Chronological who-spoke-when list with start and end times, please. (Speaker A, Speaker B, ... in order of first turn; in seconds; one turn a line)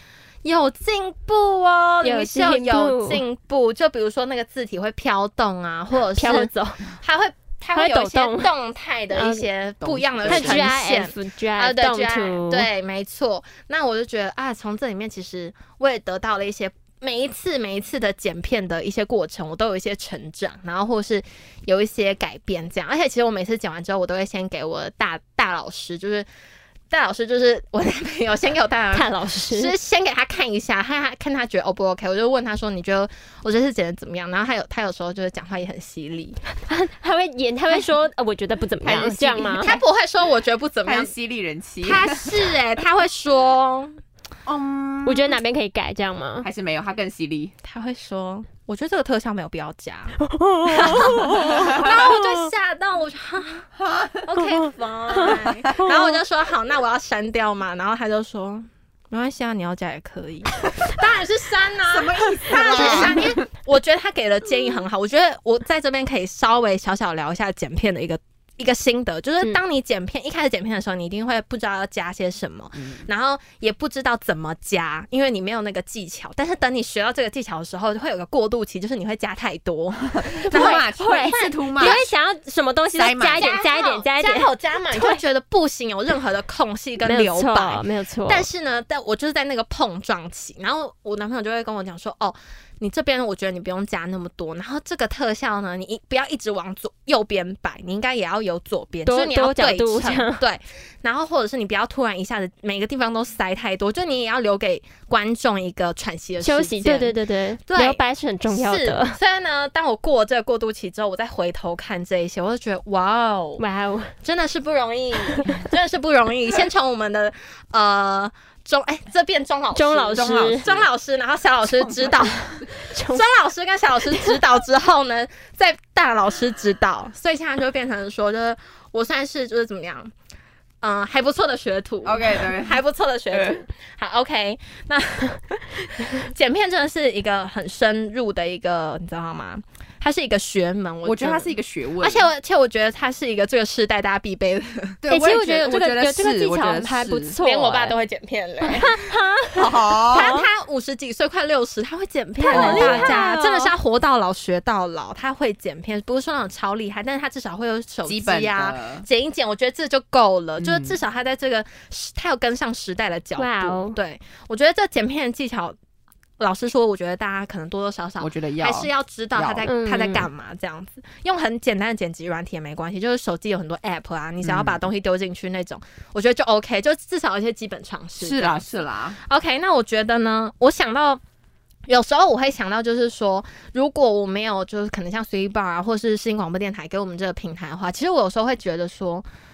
Speaker A: 0.4-26.3
Speaker B: 2.0-3.2
Speaker B: 6.1-6.8
Speaker B: 7.7-8.5
Speaker B: 9.1-9.5
Speaker C: 9.8-10.7
Speaker B: 10.3-12.7
Speaker A: 26.9-36.4
Speaker B: 28.9-29.7
Speaker B: 36.7-39.7
Speaker C: 38.8-39.9
Speaker A: 39.5-41.1
Speaker C: 40.9-42.5
Speaker A: 41.8-44.0
Speaker C: 44.5-45.4
Speaker B: 45.1-46.5
Speaker C: 46.4-47.5
Speaker A: 47.6-53.7
Speaker B: 50.2-52.5
Speaker C: 51.6-51.9
Speaker C: 53.8-54.4
Speaker A: 54.2-82.1
Speaker B: 55.1-56.2
Speaker C: 55.2-55.7
Speaker C: 61.9-63.4
Speaker B: 62.7-63.1
Speaker C: 72.8-73.1
Speaker C: 80.2-82.1
Speaker B: 80.5-85.2
Speaker C: 82.9-83.5
Speaker A: 83.4-113.6
Speaker B: 87.0-88.5
Speaker B: 99.1-100.4
Speaker B: 106.4-109.2
Speaker B: 113.6-114.1
Speaker A: 114.2-130.1
Speaker B: 119.7-120.7
Speaker C: 120.1-120.9
Speaker C: 121.7-122.7
Speaker B: 122.8-123.3
Speaker A: 130.8-145.0
Speaker C: 132.0-132.8
Speaker C: 133.3-133.6
Speaker C: 141.0-142.3
Speaker C: 145.0-147.4
Speaker B: 145.1-147.9
Speaker A: 147.4-149.1
Speaker B: 148.6-150.5
Speaker C: 149.6-150.3
Speaker A: 150.1-165.8
Speaker B: 152.4-153.7
Speaker C: 152.5-153.2
Speaker C: 158.1-159.1
Speaker C: 160.6-161.0
Speaker B: 163.4-164.0
Speaker A: 166.4-178.7
Speaker C: 168.2-169.7
Speaker B: 169.7-170.3
Speaker C: 174.4-174.8
Speaker C: 178.2-179.2
Speaker A: 179.2-181.2
Speaker A: 181.9-189.3